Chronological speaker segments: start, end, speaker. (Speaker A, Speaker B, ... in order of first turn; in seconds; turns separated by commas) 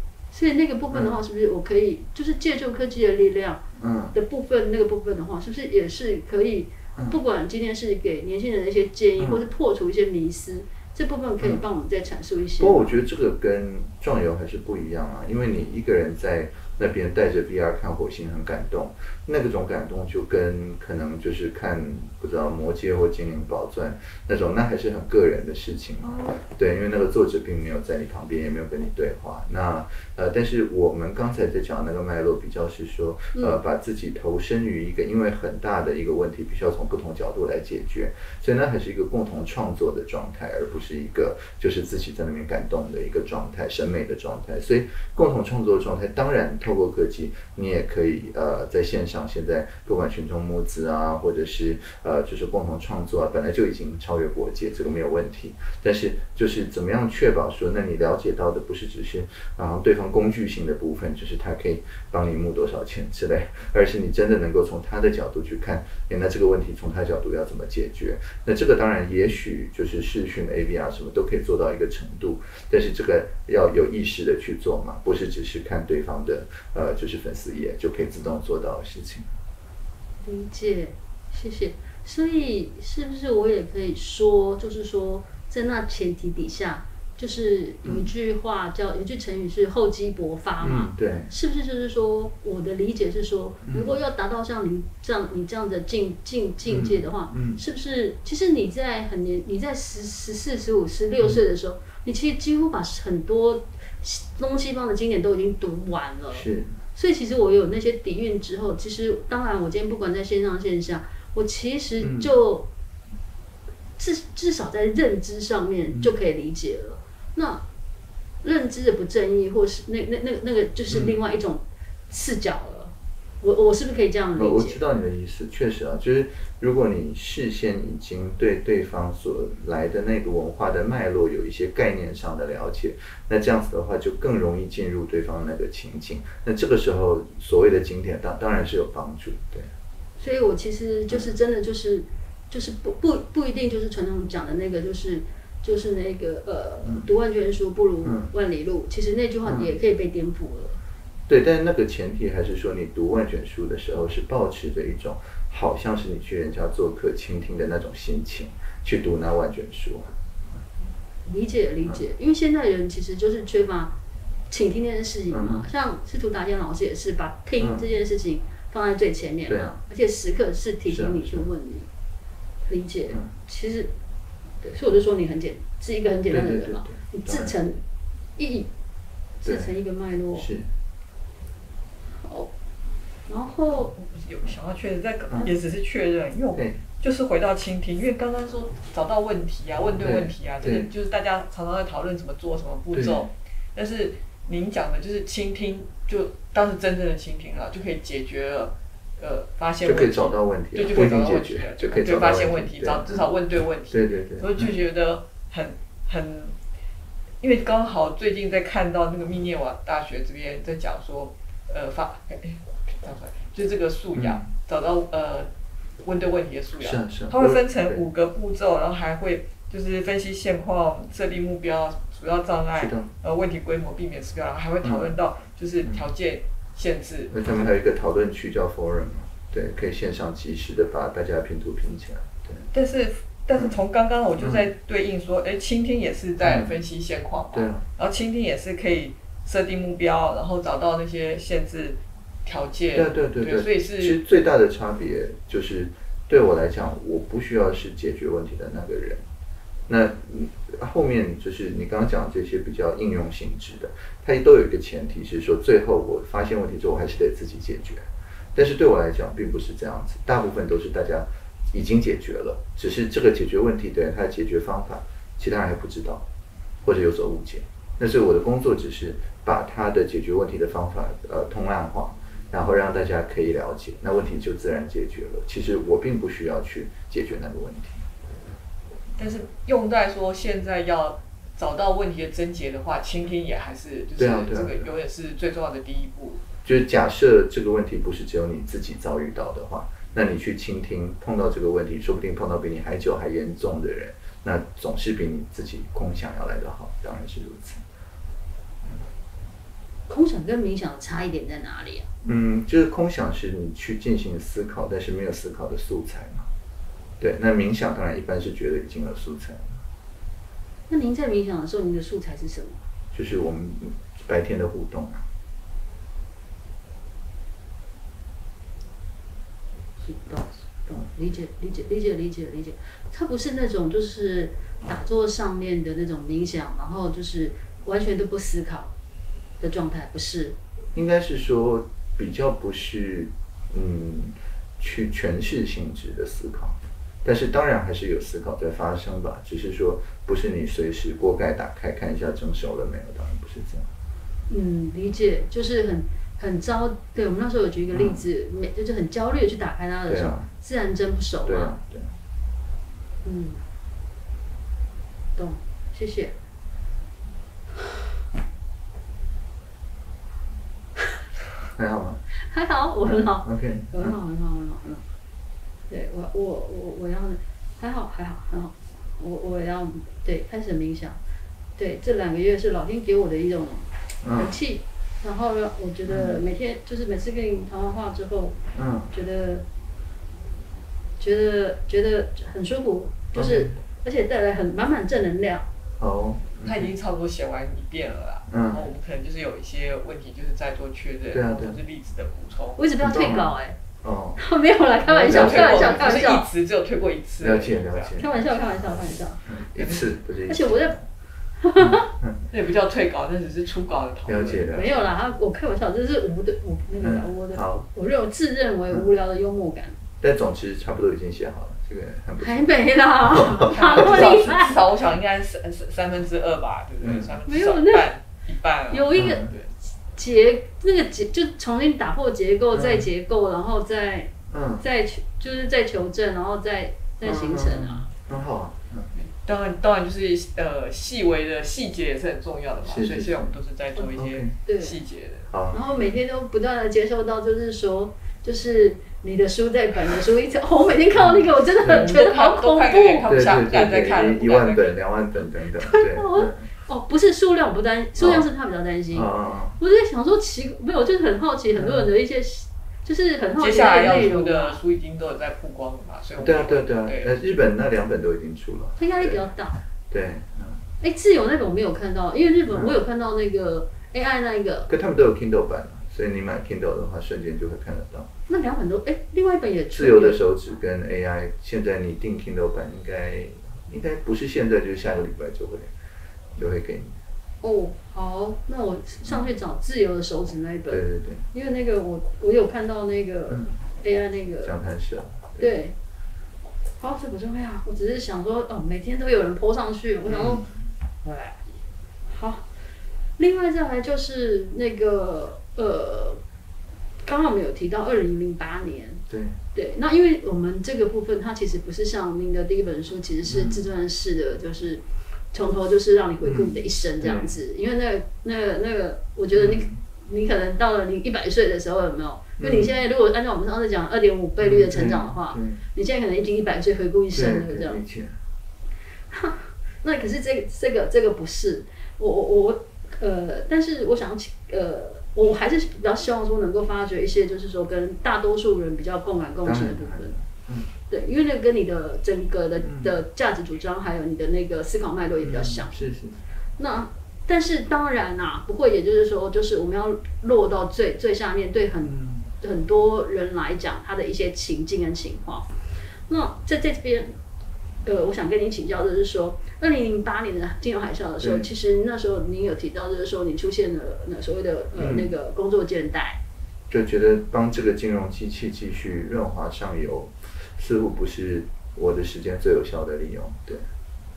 Speaker A: 0.3-12.9, Speaker B: 3.8-4.2, Speaker B: 9.2-9.4, Speaker B: 12.6-79.3, Speaker A: 26.1-26.4, Speaker A: 33.3-33.6, Speaker A: 80.2-112.7, Speaker B: 90.6-91.3, Speaker B: 96.7-97.6, Speaker B: 106.3-106.8, Speaker B: 112.0-112.3, Speaker A: 114.0-117.6, Speaker A: 118.4-124.8, Speaker B: 120.9-121.2, Speaker B: 124.4-139.7, Speaker A: 140.2-150.8, Speaker B: 148.0-148.3, Speaker B: 149.4-149.7, Speaker B: 151.3-160.2, Speaker A: 161.3-163.9, Speaker A: 164.5-171.9, Speaker B: 165.3-165.7, Speaker B: 169.5-169.8, Speaker B: 170.9-171.5, Speaker A: 172.7-173.9, Speaker A: 174.6-177.8, Speaker B: 176.3-177.6, Speaker A: 178.4-178.7, Speaker A: 179.4-180.5, Speaker B: 179.4-179.7, Speaker B: 180.3-180.7, Speaker A: 182.2-182.5, Speaker A: 183.3-183.9, Speaker C: 183.9-206.6, Speaker B: 190.0-190.9, Speaker B: 192.9-193.2, Speaker B: 199.8-203.3, Speaker B: 203.9-204.7, Speaker C: 207.4-215.5, Speaker B: 214.2-214.5, Speaker C: 216.0-227.5, Speaker B: 216.8-218.0, Speaker B: 222.8-223.1, Speaker B: 224.8-225.2, Speaker B: 227.3-232.7, Speaker C: 232.7-244.2, Speaker B: 234.4-234.7, Speaker B: 236.4-236.7, Speaker B: 237.5-237.8, Speaker B: 242.9-249.2, Speaker B: 249.9-266.3, Speaker B: 266.8-278.0, Speaker C: 279.2-286.4, Speaker B: 284.2-284.9, Speaker B: 286.6-297.8, Speaker A: 300.1-302.1, Speaker B: 302.2-306.5, Speaker B: 307.2-309.8, Speaker A: 310.9-312.8, Speaker B: 313.1-315.3, Speaker A: 320.0-328.9, Speaker A: 329.6-330.6, Speaker B: 330.9-343.9, Speaker A: 344.5-351.8, Speaker B: 347.9-348.2, Speaker B: 350.1-350.5, Speaker B: 351.5-352.1, Speaker A: 353.2-353.6, Speaker A: 355.4-356.3, Speaker B: 361.8-362.2, Speaker A: 362.5-365.1, Speaker B: 363.0-364.2, Speaker A: 365.9-371.2, Speaker A: 371.8-378.6, Speaker B: 374.2-374.6, Speaker B: 376.1-376.4, Speaker B: 378.8-379.1, Speaker A: 379.1-379.6, Speaker A: 381.2-385.7, Speaker B: 383.4-383.8, Speaker B: 386.0-386.9, Speaker C: 386.6-392.8, Speaker B: 388.5-388.9, Speaker B: 391.3-391.8, Speaker A: 392.8-393.8, Speaker B: 393.0-394.4, Speaker A: 394.4-396.5, Speaker B: 395.1-396.2, Speaker C: 395.2-398.2, Speaker B: 397.4-401.0, Speaker A: 398.2-399.4, Speaker C: 399.8-400.1, Speaker A: 400.5-401.0, Speaker A: 401.6-402.1, Speaker B: 401.8-402.4, Speaker C: 402.5-404.8, Speaker B: 404.3-404.9, Speaker A: 404.7-410.0, Speaker B: 407.0-407.9, Speaker B: 410.2-412.7, Speaker A: 412.4-414.8, Speaker B: 413.3-414.6, Speaker C: 413.6-419.7, Speaker B: 417.0-417.4, Speaker A: 417.5-418.1, Speaker A: 418.9-419.5, Speaker B: 419.1-419.6, Speaker A: 420.1-428.1, Speaker B: 422.7-423.1, Speaker B: 424.5-424.8, Speaker B: 427.2-429.1, Speaker C: 429.2-435.5, Speaker B: 432.9-433.5, Speaker A: 434.0-435.0, Speaker B: 434.1-434.5, Speaker B: 435.5-435.8, Speaker A: 435.7-443.5, Speaker B: 441.2-442.0, Speaker C: 441.8-445.0, Speaker B: 443.3-446.7, Speaker A: 445.8-454.8, Speaker B: 448.2-448.5, Speaker B: 449.1-449.8, Speaker B: 451.8-452.1, Speaker C: 453.6-457.4, Speaker B: 456.4-459.5, Speaker A: 459.0-459.8, Speaker B: 460.1-460.8, Speaker A: 461.0-464.9, Speaker B: 462.7-463.0, Speaker B: 464.9-468.3, Speaker A: 468.5-470.4, Speaker B: 469.9-475.9, Speaker B: 476.6-477.2, Speaker A: 477.6-484.8, Speaker B: 480.9-481.4, Speaker B: 484.6-485.7, Speaker A: 485.6-485.9, Speaker A: 487.0-490.6, Speaker B: 490.3-490.8, Speaker A: 491.2-491.6, Speaker A: 492.3-492.7, Speaker A: 493.4-496.4, Speaker A: 497.2-505.0, Speaker B: 499.3-499.6, Speaker B: 503.5-503.9, Speaker A: 505.5-518.0, Speaker B: 506.4-507.5, Speaker B: 509.5-510.0, Speaker B: 512.6-512.9, Speaker B: 514.6-515.8, Speaker B: 517.3-518.4, Speaker A: 519.3-530.4, Speaker B: 529.6-530.9, Speaker A: 531.1-536.0, Speaker B: 532.8-533.1, Speaker B: 535.4-536.4, Speaker A: 536.8-545.7, Speaker B: 542.0-542.5, Speaker A: 546.3-547.4, Speaker A: 548.0-556.4, Speaker B: 551.4-551.7, Speaker B: 555.0-555.3, Speaker B: 556.9-563.9